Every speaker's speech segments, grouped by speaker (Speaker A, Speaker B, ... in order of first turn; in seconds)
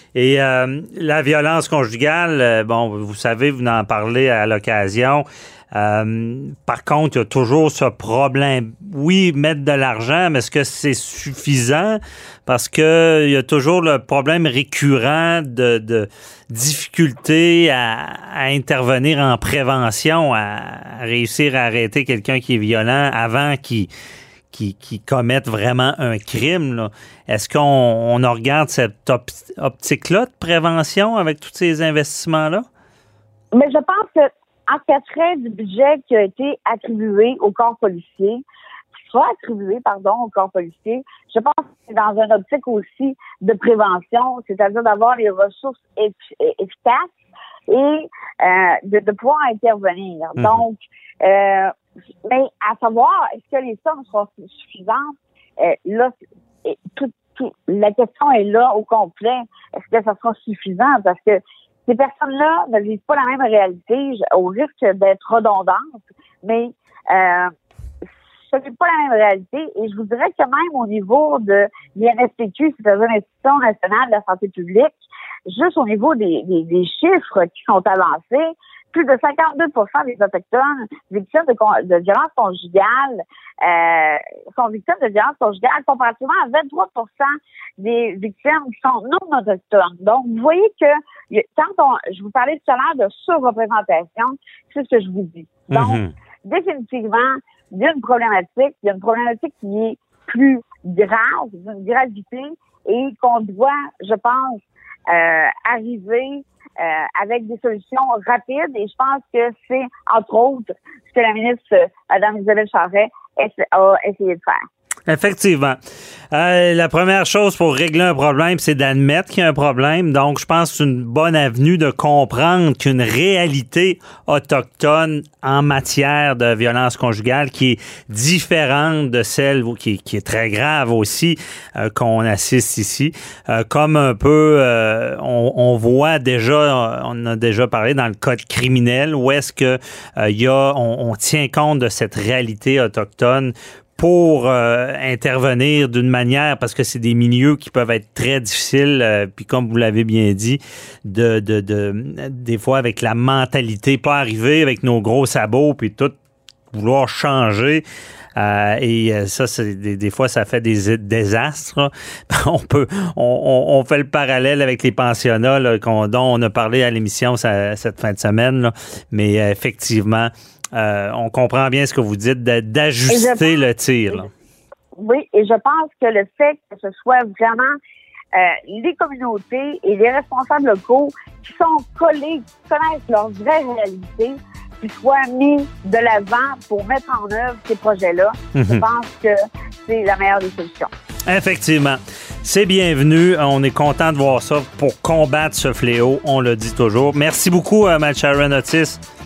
Speaker A: 0.1-23.9, 24.5-32.7, 50.4-50.6, 95.7-96.1, 115.1-115.8, 116.3-156.1, 156.7-157.8, 158.4-174.3, 188.6-188.8, 191.3-199.0
Speaker B: 33.5-38.4, 38.9-47.1, 47.7-51.7, 52.3-56.1, 56.6-67.5, 68.5-114.6, 173.1-173.5, 175.0-177.8, 178.3-189.3, 189.9-190.9